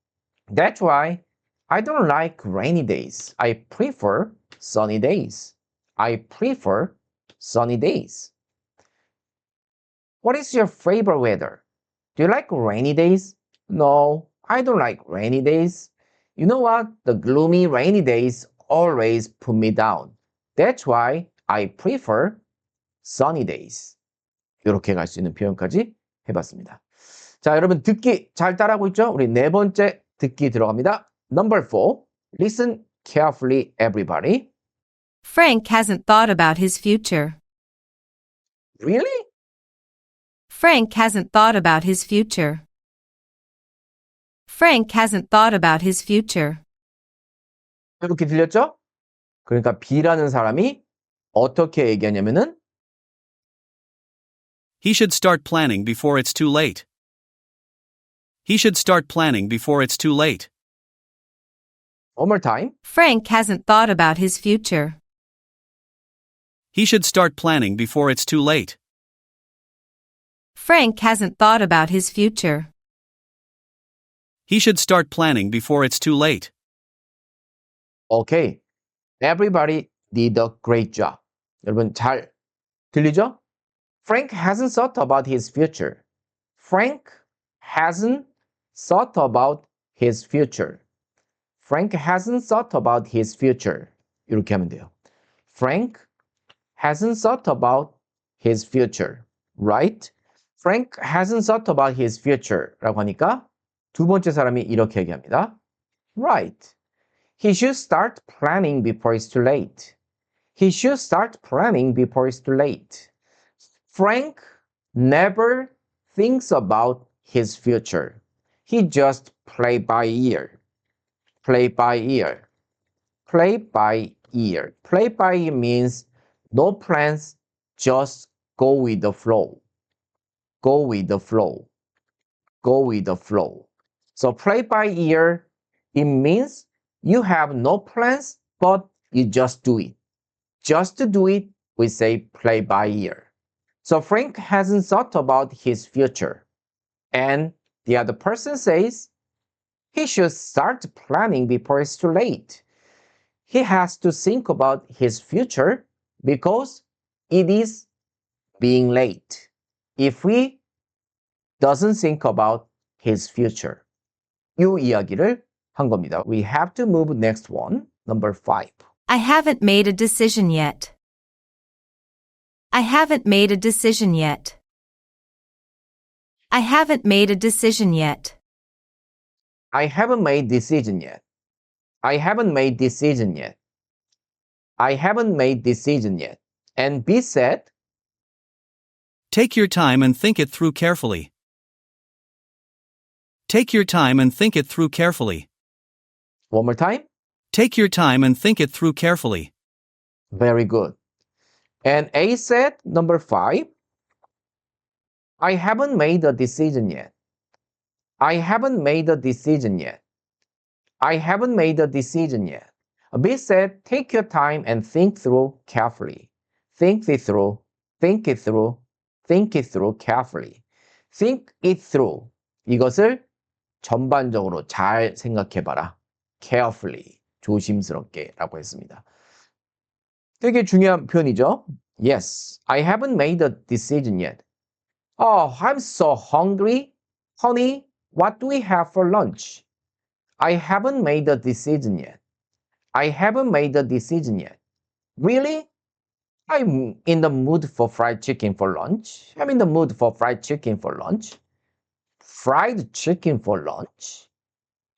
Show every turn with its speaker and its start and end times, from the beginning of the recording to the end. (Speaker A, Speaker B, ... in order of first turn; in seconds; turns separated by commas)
Speaker A: 0.5-8.3, Speaker A: 10.2-11.6, Speaker A: 12.2-22.4, Speaker A: 23.0-23.9, Speaker A: 24.6-26.8, Speaker A: 27.4-34.5, Speaker B: 35.2-37.4, Speaker A: 38.8-39.2, Speaker B: 40.5-42.6, Speaker B: 44.5-46.6, Speaker A: 48.0-48.7, Speaker A: 49.5-50.8, Speaker A: 51.4-52.5, Speaker C: 54.8-56.9, Speaker C: 58.5-60.5, Speaker A: 62.2-62.7, Speaker B: 62.9-65.0, Speaker C: 66.7-68.8, Speaker B: 70.6-72.7, Speaker C: 74.5-76.5, Speaker A: 78.1-78.6, Speaker A: 79.2-82.3, Speaker A: 82.9-83.4, Speaker A: 84.0-86.0, Speaker A: 86.6-90.8, Speaker A: 91.6-94.9, Speaker A: 95.5-96.1, Speaker A: 96.8-105.5, Speaker A: 106.2-106.7, Speaker A: 107.4-109.9, Speaker A: 110.6-113.1, Speaker A: 113.9-114.4, Speaker A: 114.9-120.6, Speaker A: 121.4-122.4, Speaker A: 123.3-129.6, Speaker A: 130.6-131.7, Speaker A: 132.6-140.0, Speaker A: 140.6-143.3, Speaker A: 143.8-146.4, Speaker A: 147.1-149.1, Speaker A: 149.9-152.6, Speaker A: 153.5-157.9, Speaker A: 158.6-160.6, Speaker A: 161.6-163.8, Speaker A: 164.6-168.8, Speaker B: 169.1-170.9, Speaker B: 172.7-174.6, Speaker B: 176.5-178.3, Speaker A: 179.7-181.2, Speaker A: 182.0-183.6, Speaker A: 184.8-187.7, Speaker C: 189.3-191.3, Speaker C: 193.5-195.5, Speaker A: 196.5-197.1, Speaker C: 197.5-199.5, Speaker A: 200.3-200.9, Speaker A: 201.8-203.7, Speaker A: 205.4-207.1, Speaker A: 208.2-210.0, Speaker A: 211.0-220.6, Speaker A: 221.1-223.2, Speaker A: 223.8-229.0, Speaker A: 230.4-234.4, Speaker A: 235.2-239.6, Speaker A: 240.4-242.2, Speaker A: 242.9-244.6, Speaker A: 245.2-245.7, Speaker A: 246.5-251.4, Speaker A: 252.2-254.3